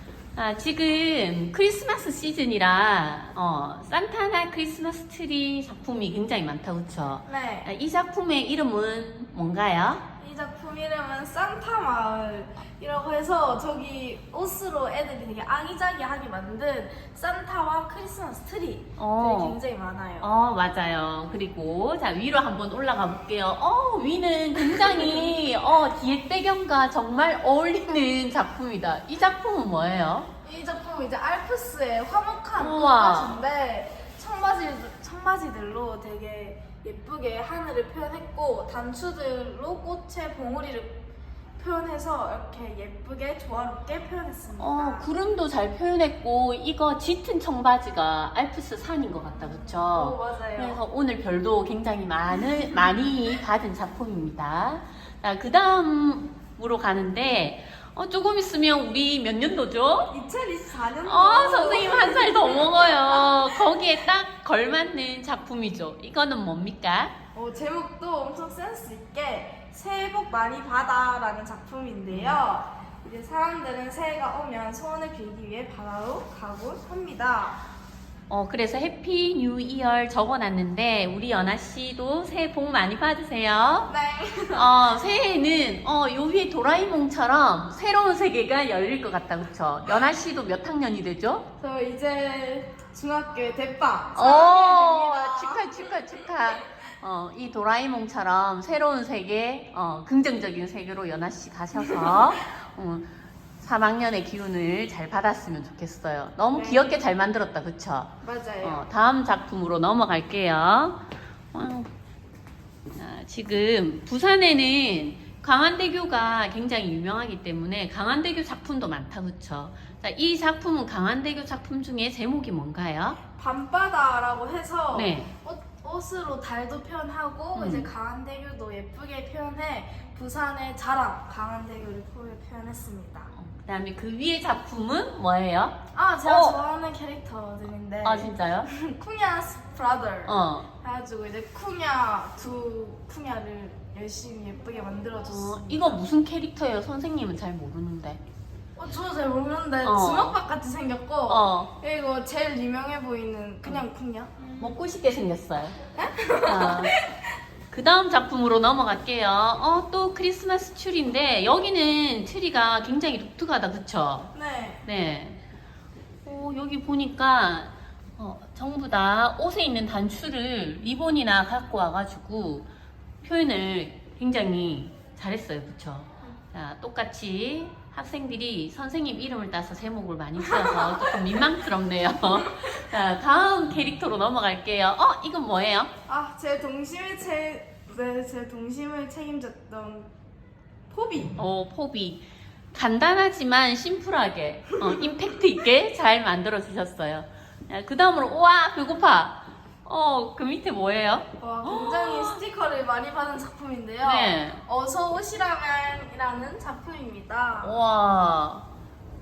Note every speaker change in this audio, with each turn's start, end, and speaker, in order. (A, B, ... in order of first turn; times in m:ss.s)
0:00.4-0:10.0 A
0:07.3-0:07.7 B
0:10.2-0:20.3 B
0:19.0-0:19.6 A
0:20.2-0:30.3 A
0:24.9-0:25.3 B
0:30.4-0:41.0 B
0:32.6-0:33.4 A
0:41.6-0:45.1 B
0:44.6-1:00.1 A
0:49.4-0:50.8 B
1:00.0-1:03.6 B
1:01.0-1:07.1 A
1:07.4-1:17.6 B
1:12.1-1:12.4 A
1:18.3-1:23.9 A
1:23.9-1:24.8 B
1:24.5-1:31.5 A
1:31.6-1:36.0 B
1:34.2-1:51.9 A
1:41.8-1:42.2 B
1:46.5-1:47.0 B
1:48.2-1:48.8 B
1:52.9-2:03.2 A
2:03.4-2:13.3 B
2:04.9-2:05.3 A
2:07.6-2:07.9 A
2:13.3-2:16.6 A
2:15.9-2:26.0 B
2:18.0-2:18.7 A
2:20.3-2:20.7 A
2:25.3-2:28.2 A
2:28.8-2:34.5 B
2:29.8-2:30.4 A
2:31.3-2:31.7 A
2:34.6-2:35.8 A
2:35.9-2:37.2 B
2:36.5-2:37.0 A
2:37.7-2:44.3 A
2:44.3-2:44.8 B
2:44.8-2:45.4 A
2:46.2-2:52.7 A
2:53.2-3:05.9 A
3:00.4-3:01.1 B
3:06.1-3:10.1 B
3:10.9-3:11.4 B
3:11.4-3:22.4 A
3:21.4-3:27.8 B
3:24.0-3:24.6 A
3:27.6-3:28.7 A